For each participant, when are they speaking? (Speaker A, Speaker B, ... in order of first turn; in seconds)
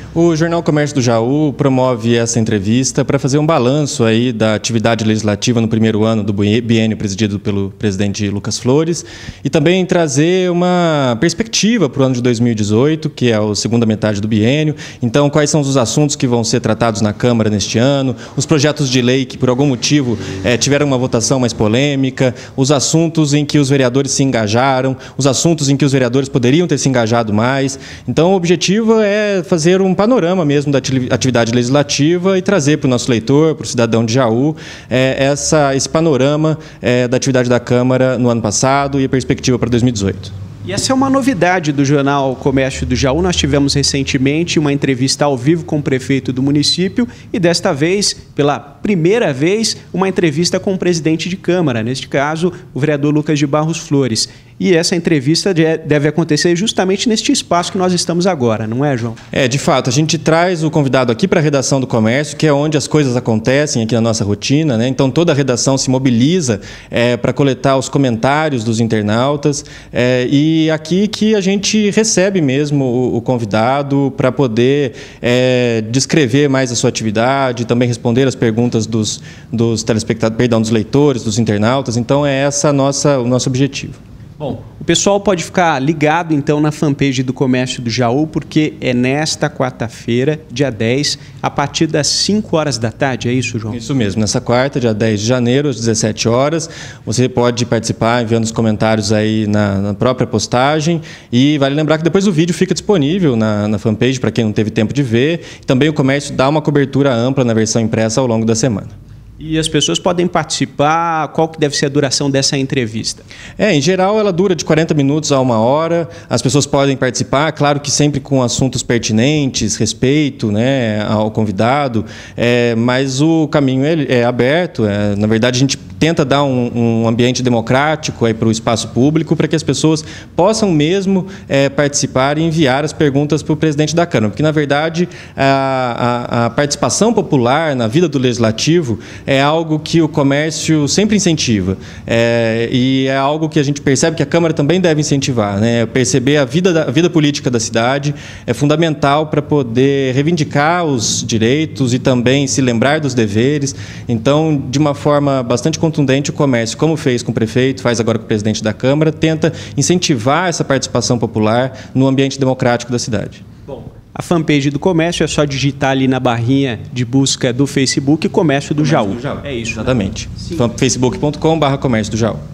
Speaker A: 0.1-40.3, 59.3-84.0, 93.7-108.9, 113.6-163.4, 168.8-172.4
Speaker B: 40.6-59.2, 84.4-93.8, 109.4-113.2, 163.7-169.9